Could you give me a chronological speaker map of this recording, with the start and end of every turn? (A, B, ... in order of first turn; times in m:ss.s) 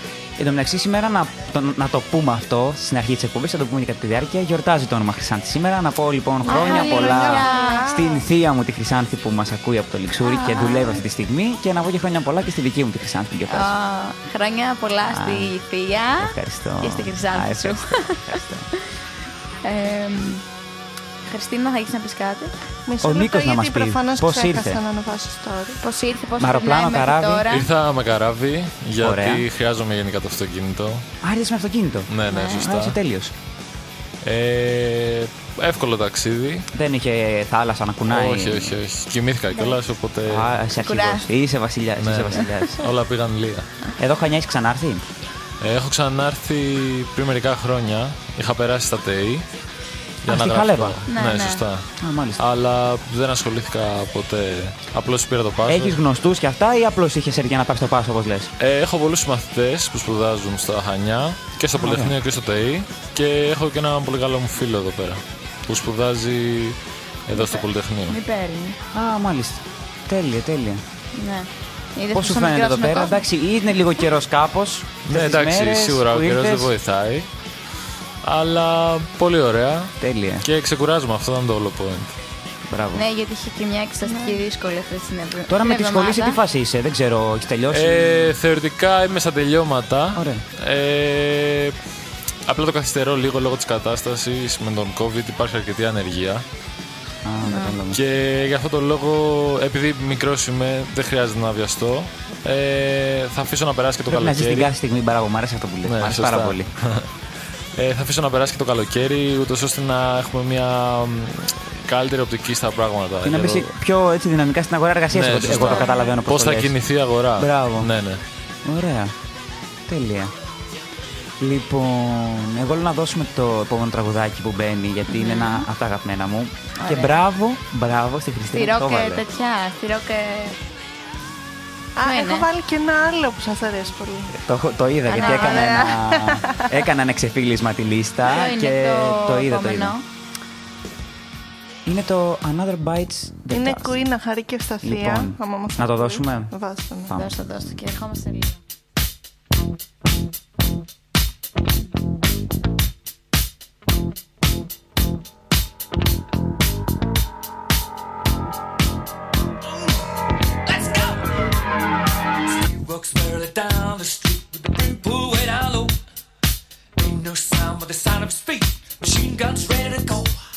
0:00.4-0:13.7 A
0:06.4-0:07.9 B
0:06.4-0:08.2 C
0:10.2-0:11.0 B
0:13.5-0:18.4 B
0:15.0-0:15.5 A
0:16.2-0:18.7 A
0:19.6-0:20.4 B
0:21.2-0:22.5 B
0:22.9-0:25.8 C
0:23.0-0:24.8 A
0:25.8-0:27.6 B
0:26.4-0:27.5 A
0:27.5-0:31.0 D
0:29.0-0:29.5 A
0:31.2-0:33.3 A
0:32.1-0:33.0 D
0:32.3-0:32.6 B
0:34.2-0:36.7 D
0:36.7-0:38.8 A
0:38.1-0:40.6 D
0:40.2-0:42.9 A
0:40.8-0:41.2 B
0:42.0-0:43.7 D
0:44.0-0:45.0 A
0:45.6-0:49.4 D
0:50.2-0:56.0 D
0:50.3-0:51.0 A
0:51.1-0:51.6 B
0:52.0-0:52.4 A
0:55.7-0:58.5 A
0:58.6-1:08.2 D
1:01.8-1:02.1 A
1:07.3-1:08.8 B
1:08.9-1:10.8 A
1:11.1-1:13.2 B
1:12.1-1:16.7 A
1:15.1-1:17.3 D
1:18.2-1:22.1 D
1:20.0-1:20.4 A
1:22.6-1:23.0 A
1:22.9-1:26.4 B
1:24.0-1:24.5 C
1:25.5-1:28.4 A
1:27.7-1:31.8 D
1:30.1-1:30.4 A
1:32.4-1:36.4 D
1:37.2-1:38.0 A
1:37.4-1:37.8 B
1:37.9-1:44.7 D
1:44.0-1:46.7 A
1:45.8-1:47.1 D
1:47.8-1:53.7 D
1:53.2-1:56.7 A
1:55.1-1:58.2 D
1:55.5-1:56.1 B
1:57.4-1:57.9 A
1:58.6-1:59.1 A
1:59.9-2:00.3 A
2:01.4-2:09.2 A
2:05.1-2:05.7 B
2:06.8-2:07.2 B
2:08.5-2:10.6 B
2:12.0-2:14.3 C
2:12.0-2:12.5 B
2:14.3-2:20.0 A
2:15.0-2:15.9 B
2:15.1-2:16.8 C
2:18.3-2:20.0 B
2:21.8-2:24.0 A
2:23.5-2:27.1 C
2:24.8-2:26.5 A
2:27.1-2:27.3 A
2:27.1-2:28.6 B
2:39.7-2:40.0 E
2:40.6-2:41.3 E
2:42.4-2:46.0 E
2:47.0-2:50.4 E